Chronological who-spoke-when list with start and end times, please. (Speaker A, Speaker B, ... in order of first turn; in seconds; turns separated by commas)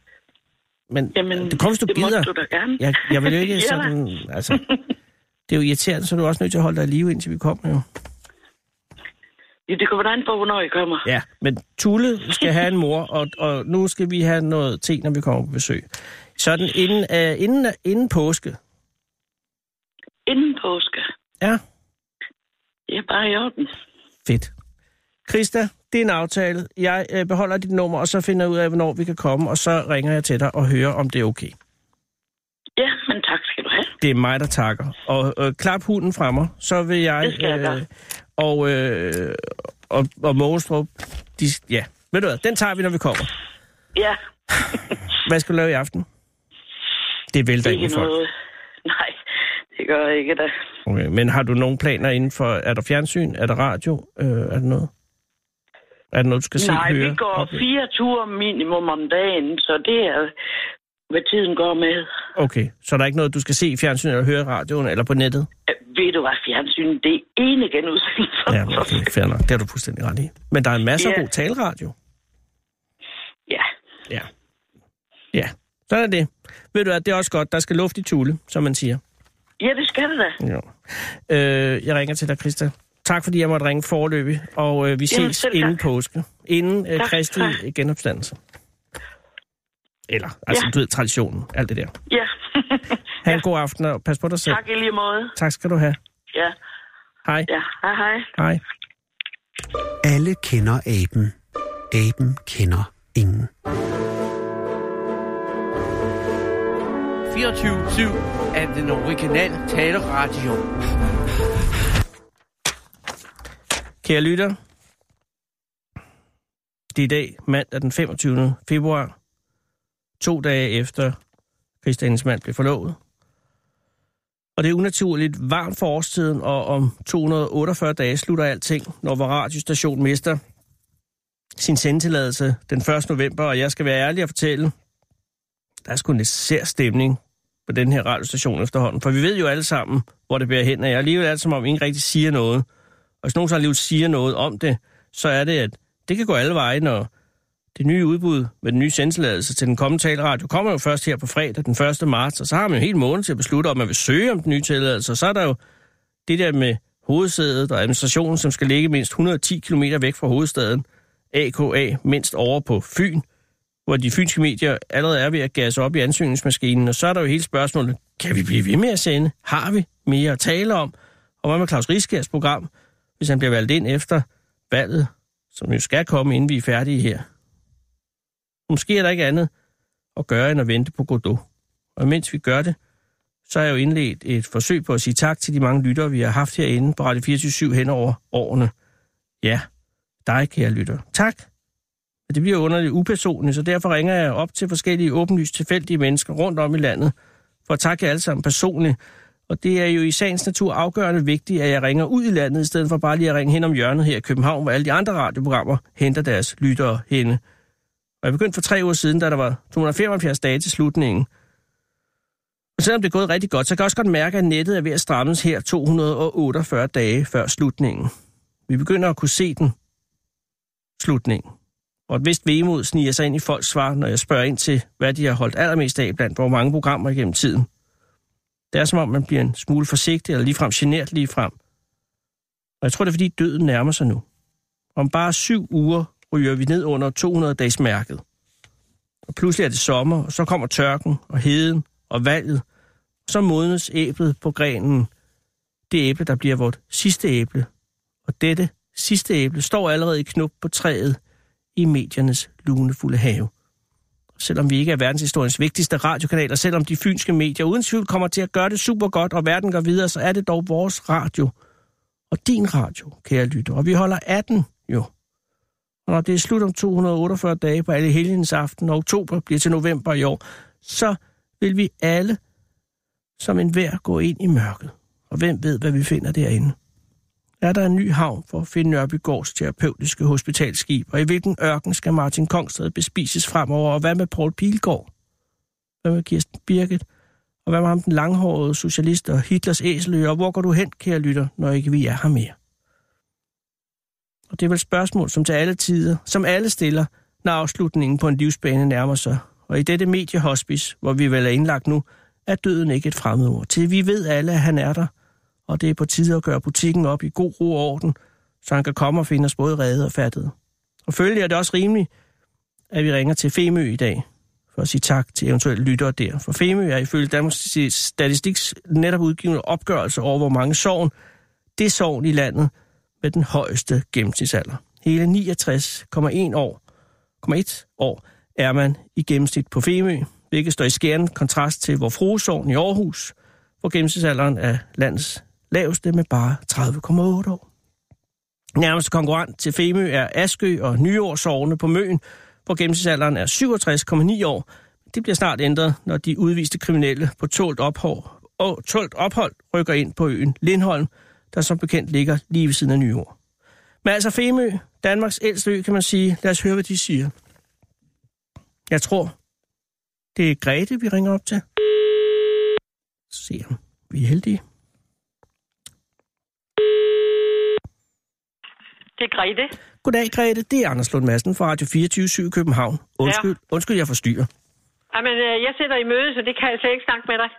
Speaker A: 0.9-4.6, Speaker B: 1.1-3.9, Speaker A: 5.5-7.8, Speaker B: 9.7-11.0, Speaker A: 11.0-18.6, Speaker B: 20.3-21.1, Speaker B: 22.9-23.7, Speaker A: 24.2-24.5, Speaker A: 25.3-31.5, Speaker B: 32.8-33.9, Speaker A: 34.0-43.3, Speaker B: 37.2-37.8, Speaker A: 45.2-46.0, Speaker A: 47.3-48.1, Speaker B: 47.6-48.3, Speaker B: 48.9-49.2, Speaker B: 49.7-50.5, Speaker A: 50.9-54.9, Speaker A: 56.1-57.6, Speaker B: 56.6-60.3, Speaker B: 61.1-62.1, Speaker A: 62.4-65.5, Speaker B: 65.7-69.0, Speaker A: 68.5-71.9, Speaker B: 71.0-71.2, Speaker A: 75.3-79.0, Speaker B: 79.6-80.4, Speaker A: 80.4-88.4, Speaker B: 85.1-85.8, Speaker B: 87.0-87.6, Speaker A: 90.1-91.9, Speaker B: 92.1-93.4, Speaker A: 93.2-94.6, Speaker B: 94.5-95.4, Speaker A: 95.4-96.0, Speaker B: 97.5-98.3, Speaker C: 100.0-101.3, Speaker C: 101.9-103.5, Speaker D: 107.3-110.8, Speaker A: 114.0-114.6, Speaker A: 116.9-119.1, Speaker A: 120.2-121.2, Speaker A: 121.8-123.0, Speaker A: 124.5-130.4, Speaker A: 131.6-134.7, Speaker A: 135.8-142.7, Speaker A: 143.2-147.1, Speaker A: 147.7-155.6, Speaker A: 156.2-163.2, Speaker A: 163.9-177.2, Speaker A: 178.7-179.5, Speaker A: 180.2-181.4, Speaker A: 182.0-182.8, Speaker A: 183.5-188.7, Speaker A: 190.2-191.4, Speaker A: 192.3-197.1, Speaker A: 197.7-199.0, Speaker A: 199.5-207.4, Speaker A: 208.2-211.3, Speaker A: 212.8-218.1, Speaker A: 218.7-219.7, Speaker A: 221.0-221.5, Speaker A: 222.1-227.7, Speaker A: 228.7-231.5, Speaker A: 232.8-234.2, Speaker A: 234.9-238.2, Speaker A: 239.3-242.6, Speaker A: 243.2-245.1, Speaker A: 245.9-247.7, Speaker A: 248.2-251.2, Speaker A: 251.7-253.5, Speaker A: 254.4-261.5, Speaker A: 262.3-265.1, Speaker A: 266.1-272.4, Speaker A: 273.4-276.8, Speaker A: 277.6-285.1, Speaker A: 286.0-287.0, Speaker A: 287.6-292.6, Speaker A: 294.5-305.1, Speaker A: 305.7-310.5, Speaker A: 311.1-312.1, Speaker A: 312.9-321.1, Speaker A: 321.8-326.8, Speaker A: 327.4-337.6, Speaker A: 338.7-353.3, Speaker A: 354.0-357.3, Speaker A: 358.9-359.4, Speaker A: 360.4-361.6, Speaker A: 363.3-364.6, Speaker E: 369.3-369.5, Speaker A: 370.0-374.5, Speaker E: 375.2-377.4